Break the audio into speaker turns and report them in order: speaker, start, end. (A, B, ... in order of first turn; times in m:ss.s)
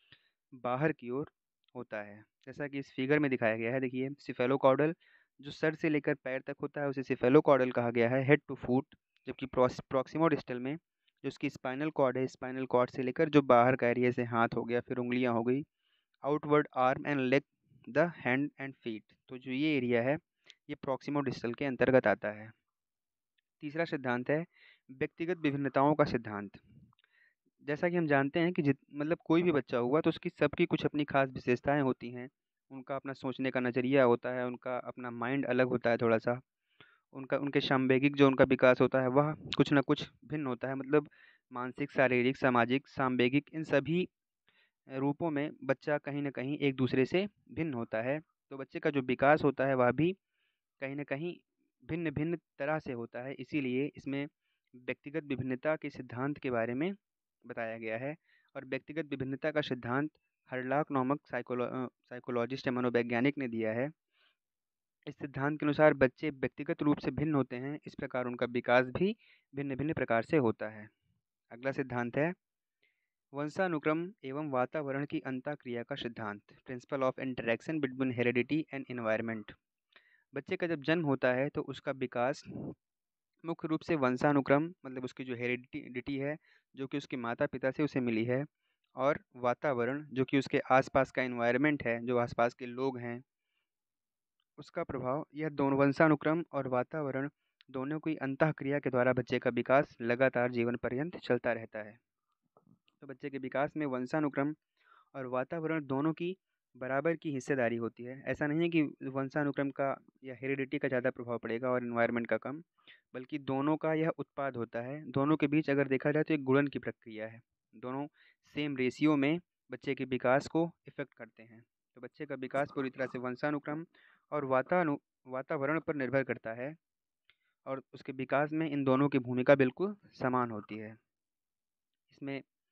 0:00.5-0:15.7 A
0:16.2-0:22.5 A
0:23.6-0:26.6 A
0:27.6-0:36.4 A
0:37.1-0:44.1 A
0:44.9-0:50.2 A
0:50.8-0:56.9 A
0:57.4-1:03.9 A
1:05.1-1:10.9 A
1:11.5-1:12.4 A
1:13.3-1:19.6 A
1:20.3-1:22.7 A
1:23.4-1:28.5 A
1:29.0-1:33.2 A
1:34.6-1:42.0 A
1:43.0-1:44.6 A
1:45.1-2:06.8 A
2:07.7-2:11.0 A
2:12.1-2:12.4 A